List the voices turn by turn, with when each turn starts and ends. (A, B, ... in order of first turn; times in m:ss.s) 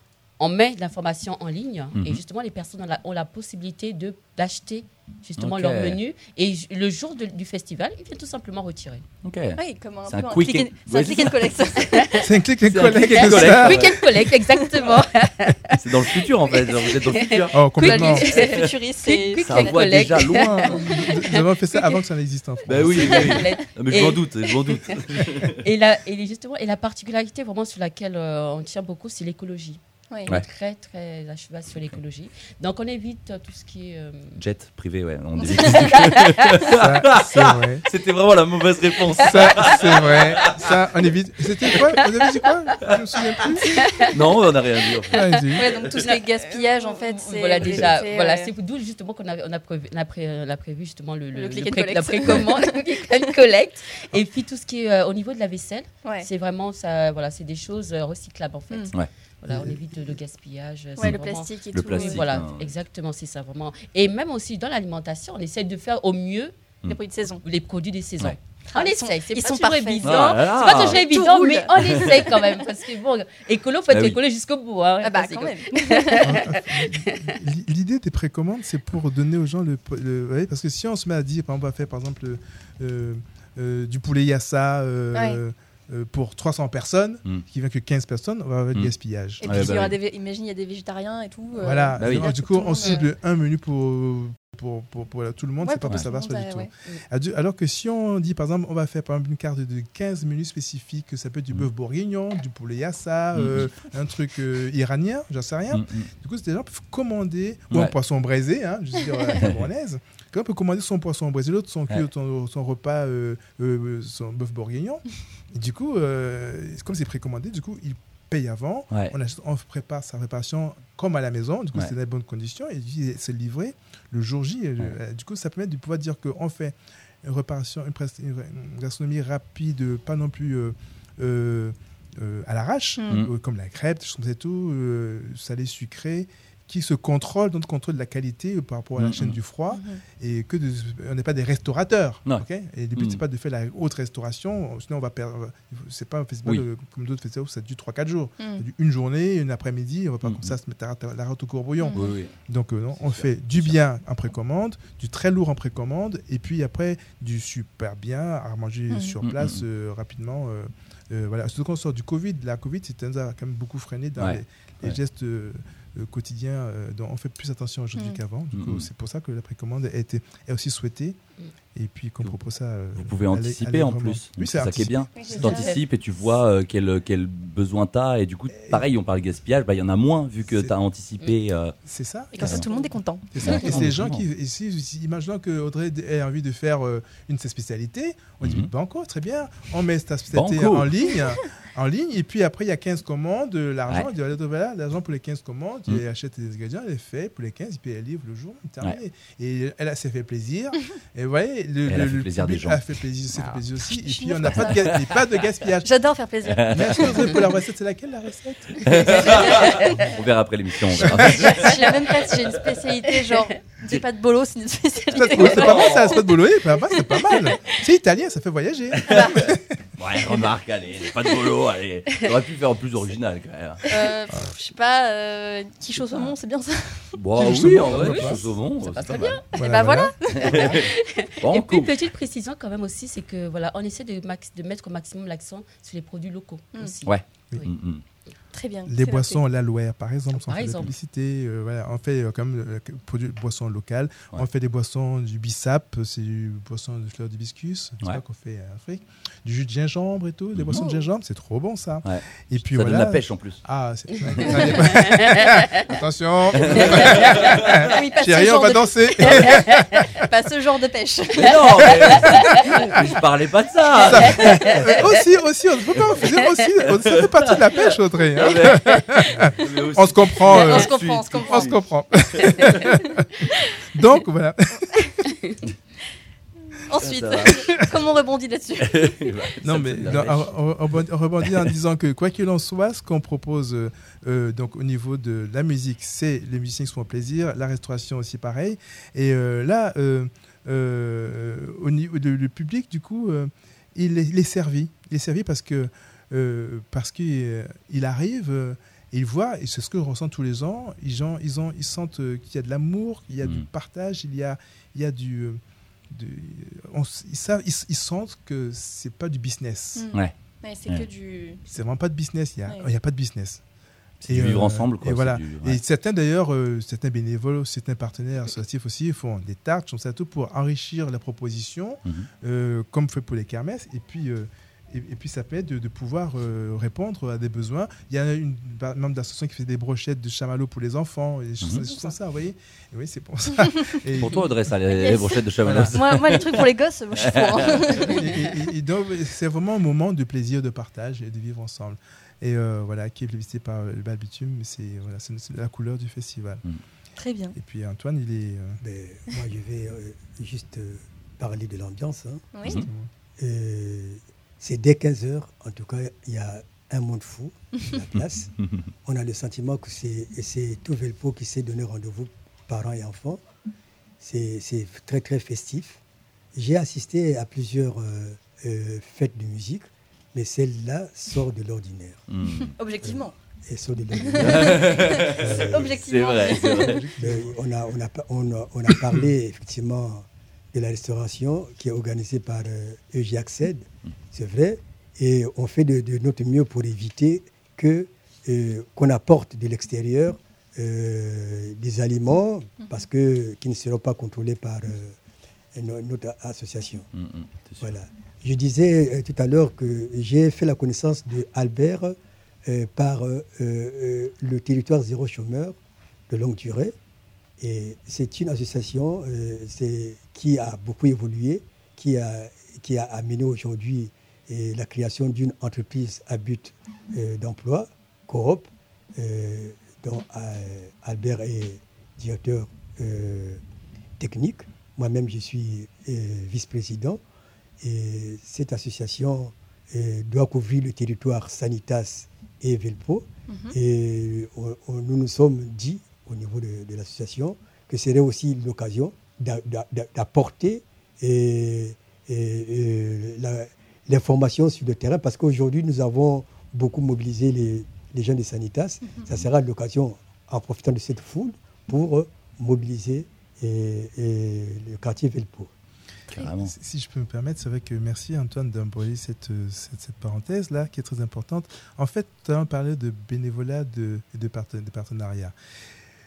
0:00.4-0:09.0 A
0:05.4-0:06.0 B
0:09.2-0:11.6 B
0:09.6-0:12.2 C
0:11.9-0:12.2 A
0:12.2-0:14.0 D
0:12.7-0:14.0 B
0:13.4-0:16.2 A
0:14.7-0:15.0 C
0:15.8-0:17.6 B
0:16.8-0:21.4 A
0:17.5-0:18.2 D
0:17.8-0:19.8 C
0:18.3-0:18.7 B
0:19.4-0:20.5 B
0:20.2-0:23.4 D
0:22.7-0:25.6 B
0:23.1-0:34.4 A
0:34.4-0:40.6 B
0:35.4-0:36.2 C
0:35.5-0:36.5 A
0:36.7-0:37.8 D
0:39.2-0:43.8 D
0:43.7-0:44.0 C
0:43.7-0:44.1 A
0:44.1-0:46.0 B
0:45.1-0:45.7 D
0:45.6-0:48.5 C
0:46.0-1:06.6 A
0:51.3-0:53.3 C
0:59.5-0:59.8 D
1:01.0-1:02.4 C
1:01.7-1:02.6 B
1:06.9-1:07.4 C
1:07.4-1:17.1 A
1:08.7-1:12.7 C
1:10.0-1:11.0 B
1:11.8-1:12.3 B
1:13.9-1:14.2 B
1:15.0-1:16.4 C
1:16.2-1:29.8 D
1:25.1-1:25.4 C
1:29.4-1:33.0 C
1:29.5-1:30.0 B
1:31.6-2:51.2 D
1:32.0-1:32.3 B
1:35.6-1:36.7 C
1:43.3-1:43.7 B
1:45.7-1:46.1 B
1:49.4-1:49.7 B
2:19.0-2:19.4 B
2:19.7-2:20.0 C
2:23.0-2:23.2 B
2:28.4-2:28.6 C
2:30.2-2:30.6 B
2:31.8-2:32.1 C
2:31.9-2:32.4 B
2:33.0-2:33.8 B
2:38.9-2:39.2 C
2:39.2-2:39.6 B
2:44.2-2:45.0 B
2:48.0-2:48.2 C
2:48.5-2:48.9 B
2:51.8-2:55.7 D
2:53.0-3:01.8 B
2:55.1-2:55.8 C
2:58.6-2:58.9 D
3:00.5-3:00.8 D
3:01.9-3:26.0 D
3:02.3-3:03.9 C
3:02.4-3:02.7 B
3:03.4-3:04.2 B
3:08.4-3:08.7 B
3:10.3-3:11.1 B
3:21.9-3:22.8 B
3:23.4-3:25.2 C
3:24.6-3:25.0 B
3:25.8-3:27.5 C
3:26.4-3:27.4 B
3:26.7-3:30.0 D
3:28.9-3:33.0 B
3:28.9-3:30.2 C
3:29.6-3:29.9 A
3:31.0-3:31.8 D
3:31.0-3:36.3 C
3:35.1-3:39.8 D
3:35.3-3:36.3 B
3:36.9-3:37.8 C
3:39.0-3:39.4 C
3:39.1-3:39.3 B
3:40.0-3:43.8 B
3:43.8-3:47.9 C
3:47.2-3:49.5 B
3:47.4-3:48.5 D
3:48.0-3:49.4 A
3:49.1-3:51.3 C
3:49.6-3:50.1 D
3:50.3-3:51.9 B
3:50.4-3:57.7 A
3:57.1-3:58.0 B
3:58.5-3:59.4 C
3:58.9-4:20.2 D
4:00.3-4:00.9 A
4:10.5-4:10.8 B
4:10.7-4:11.0 C
4:12.0-4:13.6 B
4:16.6-4:17.9 B
4:16.9-4:19.4 C
4:19.7-4:20.0 A
4:20.2-4:22.8 C
4:21.4-4:25.1 B
4:22.0-4:22.7 D
4:24.0-4:35.1 D
4:26.2-4:31.7 B
4:30.5-4:31.8 C
4:32.4-4:32.8 B
4:33.5-4:33.8 C
4:35.3-4:35.6 A
4:36.9-4:39.3 C
4:37.0-4:37.9 B
4:38.8-4:40.6 B
4:39.6-5:10.1 D
4:41.4-4:41.7 B
5:10.0-5:11.6 C
5:11.7-5:13.6 D
5:14.2-5:15.8 B
5:14.3-5:34.5 D
5:34.2-5:38.1 B
5:34.9-5:38.3 C
5:35.6-5:36.0 D
5:37.8-5:46.6 D
5:47.2-5:47.6 C
5:47.6-5:48.8 D
5:48.8-5:52.5 E
5:52.5-5:52.8 C
5:52.6-5:53.1 D
5:53.4-5:58.5 E
5:59.0-6:03.4 E
6:04.2-6:06.0 E
6:06.5-6:12.2 E
6:12.3-6:12.7 B
6:12.5-6:13.4 C
6:13.0-6:16.0 E
6:14.2-6:17.0 C
6:14.3-6:17.0 B
6:16.8-6:17.6 D
6:17.2-6:35.2 E
6:35.7-6:37.1 E
6:37.1-6:38.0 B
6:37.8-6:45.8 E
6:46.3-6:47.0 E
6:47.6-7:03.6 E
7:04.2-7:07.2 E
7:07.8-7:35.7 E
7:13.5-7:13.8 C
7:36.3-7:36.7 B
7:36.5-7:45.5 D